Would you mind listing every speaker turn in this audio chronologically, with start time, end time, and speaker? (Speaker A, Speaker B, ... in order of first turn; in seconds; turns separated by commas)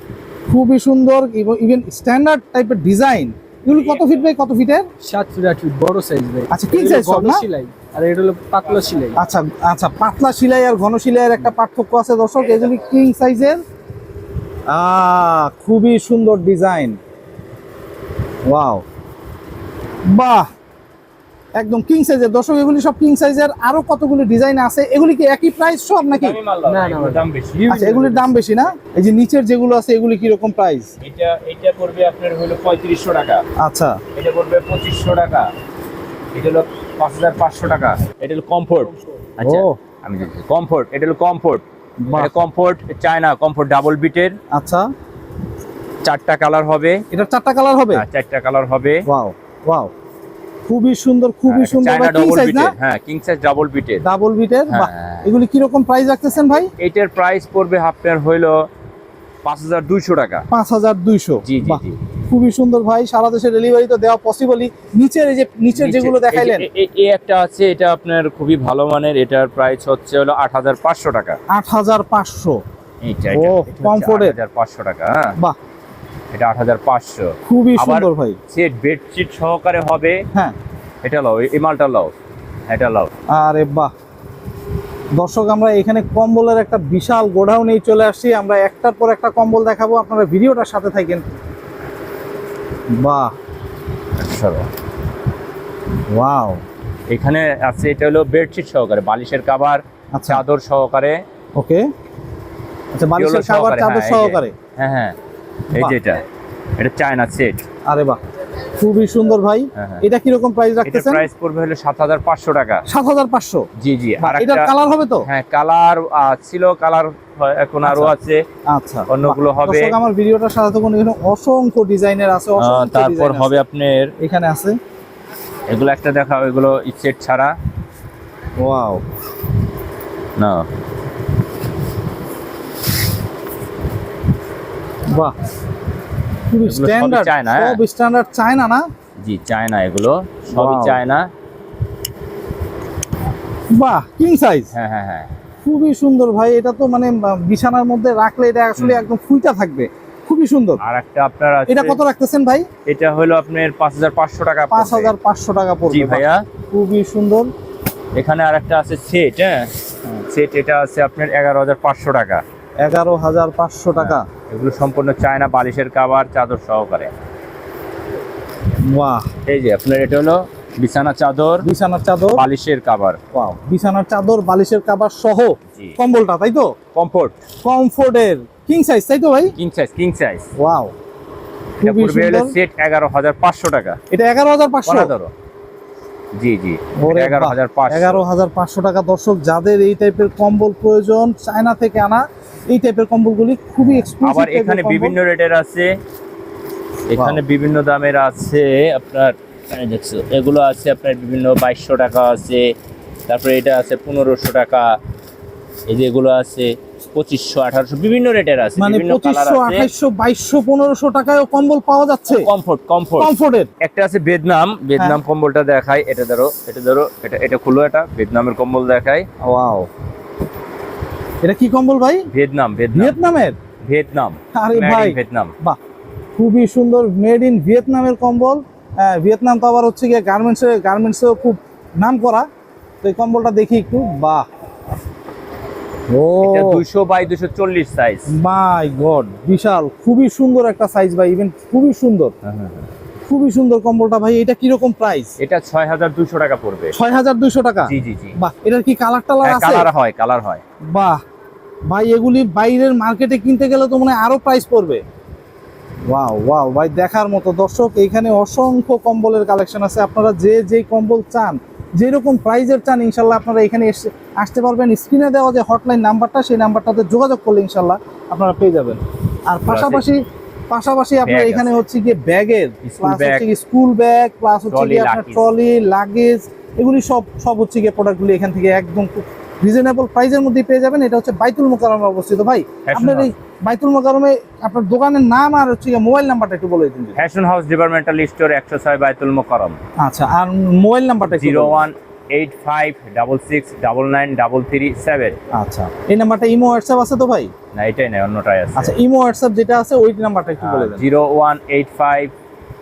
Speaker A: 0.5-4.9, Speaker B: 3.7-4.1, Speaker C: 5.0-9.2, Speaker A: 6.5-7.5, Speaker A: 9.2-13.6, Speaker A: 14.7-17.0, Speaker A: 18.5-18.8, Speaker A: 20.1-20.5, Speaker A: 21.6-26.4, Speaker B: 26.1-27.7, Speaker C: 26.6-28.4, Speaker A: 27.7-30.9, Speaker B: 31.0-33.4, Speaker A: 33.6-34.0, Speaker B: 34.1-35.5, Speaker B: 36.4-44.4, Speaker A: 39.4-39.8, Speaker A: 42.0-42.3, Speaker A: 44.5-44.9, Speaker B: 46.0-47.0, Speaker A: 47.1-48.0, Speaker B: 47.9-49.0, Speaker A: 49.1-49.9, Speaker A: 50.7-52.7, Speaker B: 51.5-54.0, Speaker A: 54.0-56.7, Speaker B: 54.7-55.3, Speaker B: 56.8-58.6, Speaker B: 59.4-60.5, Speaker A: 60.5-66.7, Speaker B: 61.5-62.0, Speaker B: 65.8-71.4, Speaker A: 71.5-72.6, Speaker B: 73.0-75.4, Speaker A: 73.3-74.4, Speaker B: 76.3-80.2, Speaker A: 77.5-78.4, Speaker B: 81.0-82.1, Speaker B: 82.7-83.1, Speaker A: 83.3-83.9, Speaker A: 85.2-91.2, Speaker A: 93.0-93.3, Speaker B: 94.2-94.7, Speaker A: 96.1-96.6, Speaker B: 97.1-101.2, Speaker A: 100.1-100.4, Speaker A: 101.6-101.9, Speaker A: 102.9-104.5, Speaker B: 103.2-105.2, Speaker B: 105.7-106.2, Speaker B: 106.8-107.6, Speaker A: 107.9-108.2, Speaker A: 108.8-111.3, Speaker B: 109.8-110.0, Speaker B: 110.9-112.9, Speaker A: 112.9-113.7, Speaker B: 113.8-114.7, Speaker A: 114.2-115.2, Speaker B: 115.2-118.4, Speaker A: 117.8-118.2, Speaker A: 118.7-123.5, Speaker B: 119.1-120.0, Speaker B: 122.6-124.1, Speaker A: 124.2-124.8, Speaker B: 125.7-127.5, Speaker A: 128.6-129.1, Speaker B: 130.4-130.7, Speaker A: 136.5-138.8, Speaker B: 136.6-137.8, Speaker B: 139.2-141.3, Speaker A: 140.5-141.0, Speaker A: 143.7-144.7, Speaker B: 144.7-145.3, Speaker A: 145.6-150.8, Speaker B: 148.8-149.1, Speaker B: 150.8-152.0, Speaker A: 151.7-152.7, Speaker B: 152.9-155.1, Speaker A: 154.7-157.5, Speaker B: 155.9-156.4, Speaker B: 158.2-159.7, Speaker B: 160.3-162.4, Speaker A: 162.8-164.2, Speaker B: 164.0-167.1, Speaker A: 168.9-169.3, Speaker B: 169.5-171.7, Speaker A: 171.6-172.4, Speaker B: 172.3-173.2, Speaker A: 173.3-176.7, Speaker B: 176.9-177.4, Speaker A: 177.6-179.6, Speaker B: 179.6-180.5, Speaker A: 180.6-180.9, Speaker A: 181.8-182.6, Speaker B: 181.8-184.0, Speaker A: 184.1-185.1, Speaker B: 184.9-185.3, Speaker B: 186.4-188.2, Speaker A: 187.0-195.2, Speaker B: 193.8-195.9, Speaker B: 197.1-202.7, Speaker A: 197.1-197.4, Speaker B: 203.3-204.9, Speaker B: 205.9-209.9, Speaker A: 208.8-212.5, Speaker B: 212.3-219.3, Speaker A: 213.2-213.7, Speaker A: 219.4-219.9, Speaker A: 221.4-222.3, Speaker B: 222.3-223.2, Speaker A: 222.9-223.6, Speaker B: 223.9-225.5, Speaker A: 224.6-225.8, Speaker A: 226.4-232.5, Speaker A: 233.0-234.4, Speaker A: 236.1-236.8, Speaker B: 236.4-238.3, Speaker A: 238.3-242.3, Speaker B: 242.4-242.9, Speaker A: 243.3-245.3, Speaker B: 245.4-246.9, Speaker A: 246.9-249.9, Speaker B: 247.9-248.4, Speaker B: 249.4-250.6, Speaker A: 250.9-251.2, Speaker A: 251.9-255.0, Speaker A: 256.1-287.2, Speaker B: 269.7-270.0, Speaker B: 271.2-271.8, Speaker B: 272.8-273.5, Speaker B: 274.7-275.5, Speaker B: 282.9-283.3, Speaker B: 287.2-289.8, Speaker A: 290.0-291.9, Speaker B: 291.3-295.4, Speaker A: 295.5-297.5, Speaker B: 297.7-298.9, Speaker A: 298.8-301.0, Speaker B: 300.6-302.3